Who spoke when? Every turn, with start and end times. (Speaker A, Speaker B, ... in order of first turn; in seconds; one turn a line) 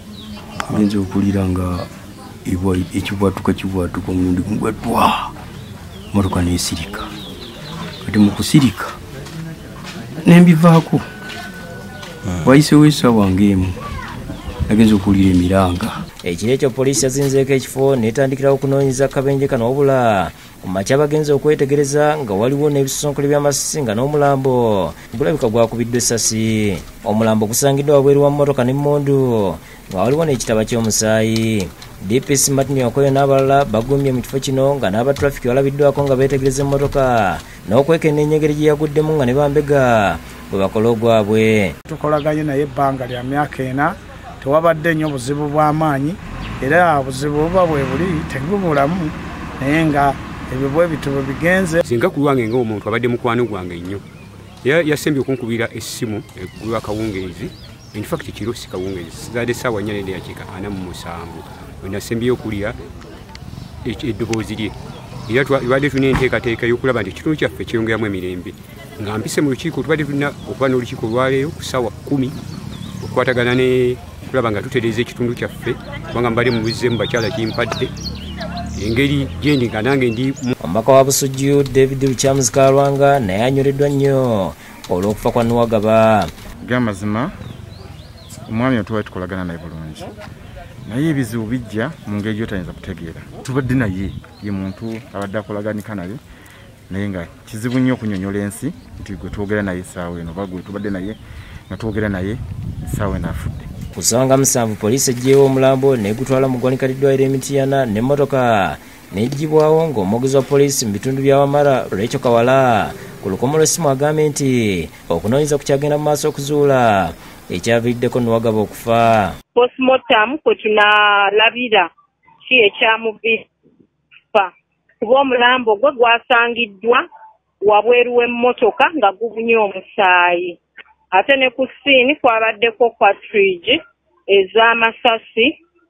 Speaker A: 0.7-1.9
Speaker A: 2.5-5.3
Speaker A: 6.1-7.1
Speaker A: 8.1-9.0
Speaker A: 10.2-11.1
Speaker A: 12.4-13.8
Speaker A: 14.7-16.0
Speaker B: 16.2-41.8
Speaker C: 41.9-51.8
Speaker D: 51.8-54.0
Speaker D: 54.6-62.8
Speaker D: 63.9-64.8
Speaker D: 65.3-72.4
Speaker D: 73.0-77.9
Speaker D: 78.8-80.5
Speaker B: 80.6-86.3
Speaker E: 86.6-87.3
Speaker E: 88.5-90.1
Speaker E: 90.9-96.2
Speaker E: 96.9-101.2
Speaker E: 101.7-103.7
Speaker B: 104.0-119.4
Speaker F: 119.5-121.9
Speaker F: 122.4-123.5
Speaker F: 124.3-127.0
Speaker F: 127.6-130.6
Speaker F: 131.1-135.6